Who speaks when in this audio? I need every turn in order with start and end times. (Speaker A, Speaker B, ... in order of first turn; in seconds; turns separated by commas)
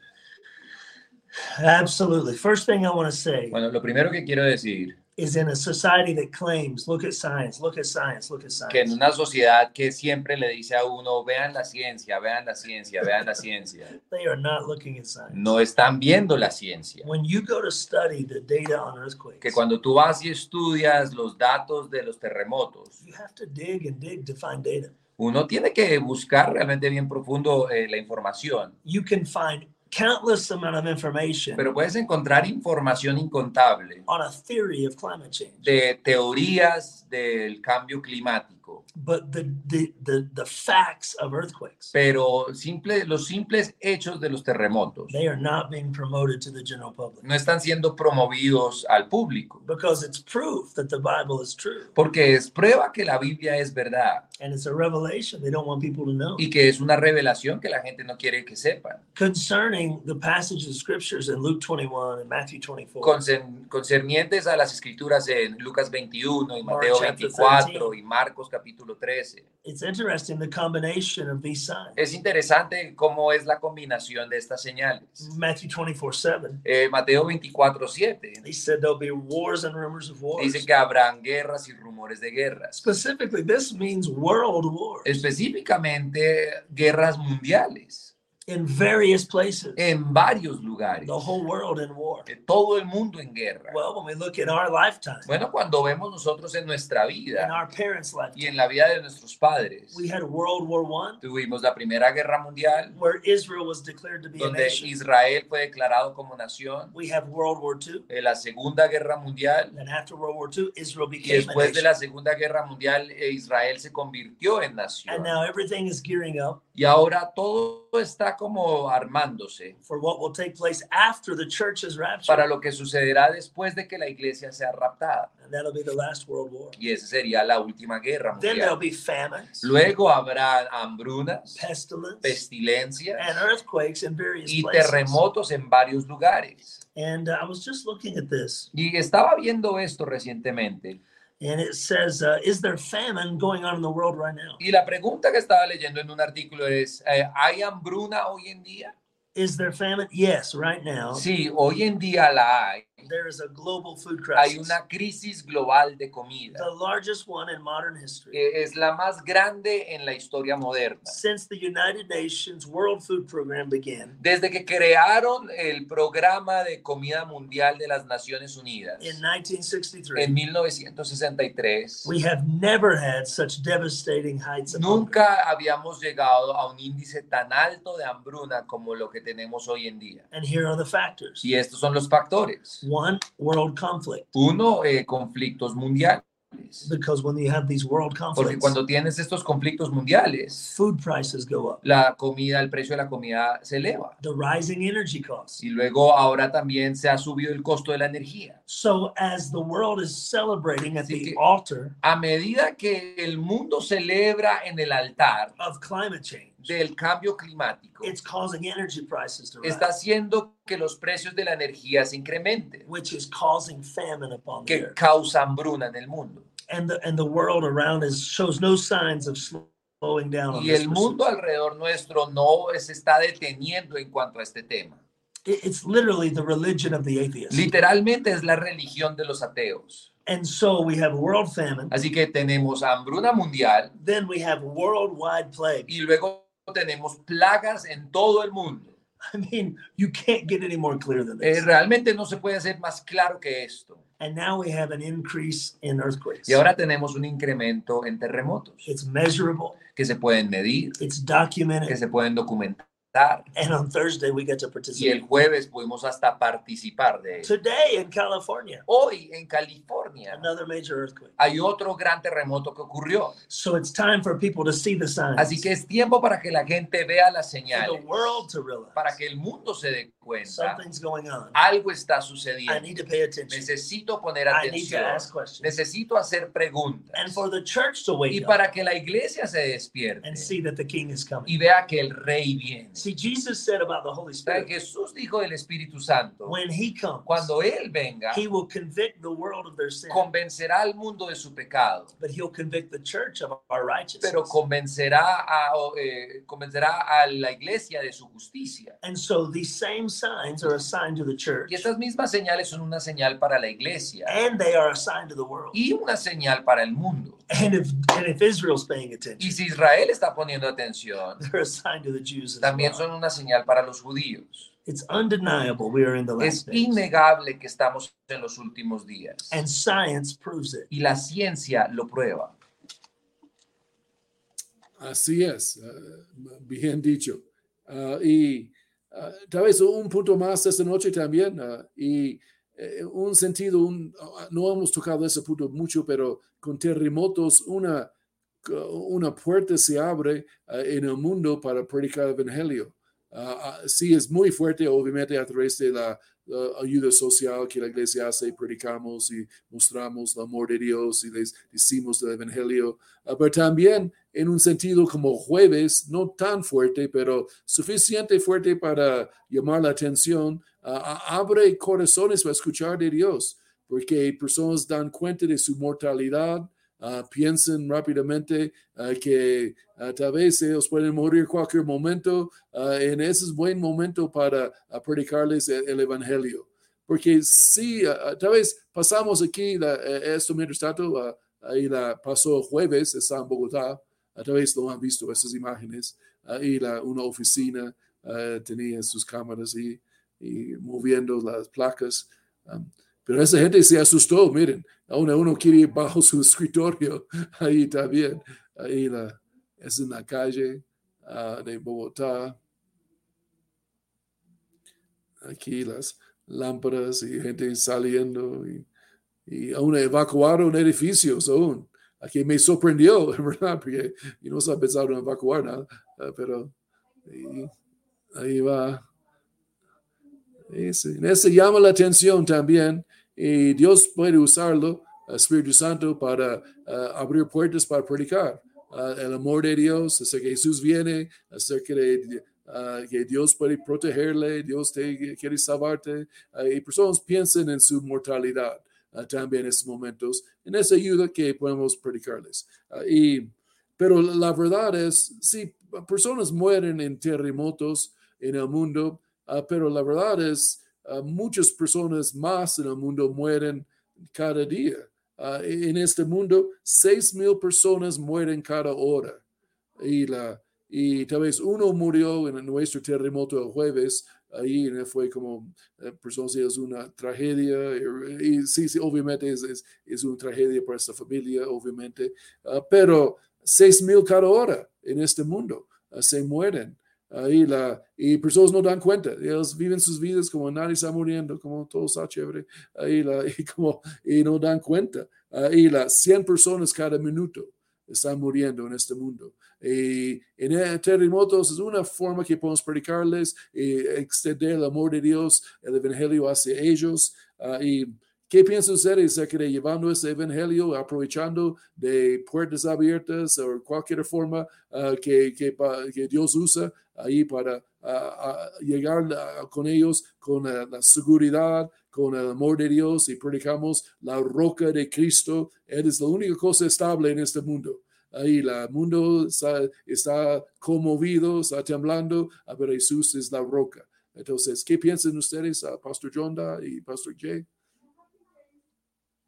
Speaker A: 1.4-3.6, Speaker B: 3.5-5.0, Speaker A: 5.2-9.0, Speaker B: 8.7-13.9, Speaker A: 14.0-15.5, Speaker B: 15.3-17.1, Speaker A: 17.0-19.6, Speaker B: 19.4-22.9, Speaker A: 23.0-24.9, Speaker B: 25.2-28.7, Speaker A: 28.8-31.6, Speaker B: 31.6-34.0, Speaker A: 34.1-35.7, Speaker B: 35.6-38.8, Speaker A: 39.0-41.9, Speaker B: 41.9-45.1, Speaker A: 45.1-47.2, Speaker B: 47.2-49.6, Speaker A: 49.6-51.9, Speaker B: 52.0-54.2, Speaker A: 54.4-56.5, Speaker B: 56.4-59.0, Speaker A: 59.1-63.2, Speaker B: 63.0-69.5, Speaker A: 66.6-67.9, Speaker A: 69.6-72.0, Speaker B: 72.0-75.3, Speaker A: 75.2-76.6, Speaker B: 76.6-78.4, Speaker A: 78.4-80.7, Speaker B: 80.3-82.9, Speaker A: 82.8-85.2, Speaker B: 85.0-88.1, Speaker A: 88.5-89.8, Speaker B: 89.8-91.2, Speaker A: 91.0-92.3, Speaker B: 92.3-93.8, Speaker A: 93.7-95.3, Speaker B: 95.3-97.6, Speaker A: 97.3-98.5, Speaker B: 98.3-100.0, Speaker A: 99.9-101.2, Speaker B: 101.2-103.0, Speaker A: 102.9-104.9, Speaker B: 104.4-106.9, Speaker A: 106.9-108.1, Speaker B: 108.1-109.8, Speaker A: 109.7-111.9, Speaker B: 111.2-115.3, Speaker A: 115.1-116.6, Speaker B: 116.7-119.8, Speaker A: 119.8-122.5, Speaker B: 122.3-125.3, Speaker A: 125.4-126.8, Speaker B: 126.8-128.8, Speaker A: 128.4-129.7, Speaker B: 129.6-131.6, Speaker A: 131.6-132.4, Speaker B: 132.2-133.4, Speaker A: 133.2-135.2, Speaker B: 134.5-136.8, Speaker A: 136.9-138.7, Speaker B: 138.7-141.0, Speaker A: 141.4-144.6, Speaker B: 144.6-148.9, Speaker A: 149.3-151.2, Speaker B: 151.1-153.0, Speaker A: 153.1-154.8, Speaker B: 154.3-156.7, Speaker A: 156.5-158.4, Speaker B: 158.3-161.2, Speaker A: 161.1-164.2, Speaker B: 164.2-169.2, Speaker A: 169.0-170.4, Speaker B: 170.2-172.1, Speaker A: 172.0-175.2, Speaker B: 174.7-180.2, Speaker A: 180.3-181.4, Speaker B: 181.4-182.8, Speaker A: 182.8-184.3, Speaker B: 184.3-186.9, Speaker A: 186.8-188.8, Speaker B: 188.3-190.7, Speaker A: 190.7-191.8, Speaker B: 191.8-194.2, Speaker A: 194.2-195.6, Speaker B: 195.6-198.6, Speaker A: 198.7-201.9, Speaker B: 201.0-201.4, Speaker B: 202.0-205.5, Speaker A: 205.6-206.7, Speaker B: 206.6-208.1, Speaker A: 208.0-209.9, Speaker B: 209.6-212.9, Speaker A: 212.8-214.9, Speaker B: 214.7-216.5, Speaker A: 216.7-221.3, Speaker B: 220.5-225.0, Speaker A: 225.4-227.7, Speaker B: 227.5-230.1, Speaker A: 230.2-231.9, Speaker B: 231.9-233.9, Speaker A: 234.0-235.9, Speaker B: 235.9-238.9, Speaker A: 239.3-241.7, Speaker B: 241.4-244.0, Speaker A: 244.2-246.6, Speaker B: 246.5-248.9, Speaker A: 248.8-249.8, Speaker B: 249.9-251.0, Speaker A: 251.0-252.0, Speaker B: 251.9-253.5, Speaker A: 253.5-255.2, Speaker B: 254.9-257.5, Speaker A: 257.4-258.8, Speaker B: 258.9-260.5, Speaker A: 260.3-261.3, Speaker B: 261.4-263.4, Speaker A: 263.5-265.7, Speaker B: 265.4-268.4, Speaker A: 267.7-269.2, Speaker B: 268.9-270.8, Speaker A: 270.4-271.6, Speaker B: 271.5-272.9, Speaker A: 272.7-273.7, Speaker B: 273.5-277.4, Speaker A: 274.5-275.8, Speaker A: 277.1-278.6, Speaker B: 278.3-280.5, Speaker A: 280.2-281.5, Speaker B: 281.4-283.1, Speaker A: 282.9-284.7, Speaker B: 284.5-286.6, Speaker A: 286.4-287.5, Speaker B: 287.3-288.4, Speaker A: 288.3-290.3, Speaker B: 290.1-292.1, Speaker A: 292.2-294.6, Speaker B: 294.2-299.0, Speaker A: 299.0-301.9, Speaker B: 301.7-304.4, Speaker A: 304.2-305.8, Speaker B: 305.7-307.4, Speaker A: 307.5-309.6, Speaker B: 309.4-311.4, Speaker A: 311.4-313.0, Speaker B: 312.6-314.7, Speaker A: 314.9-317.0, Speaker B: 316.4-319.6, Speaker A: 319.5-320.9, Speaker B: 320.9-322.5, Speaker C: 325.0-338.1, Speaker C: 338.6-402.6, Speaker C: 405.4-408.9, Speaker C: 409.4-416.7, Speaker C: 417.2-417.7, Speaker C: 418.3-419.0, Speaker C: 420.7-459.4, Speaker C: 460.0-527.6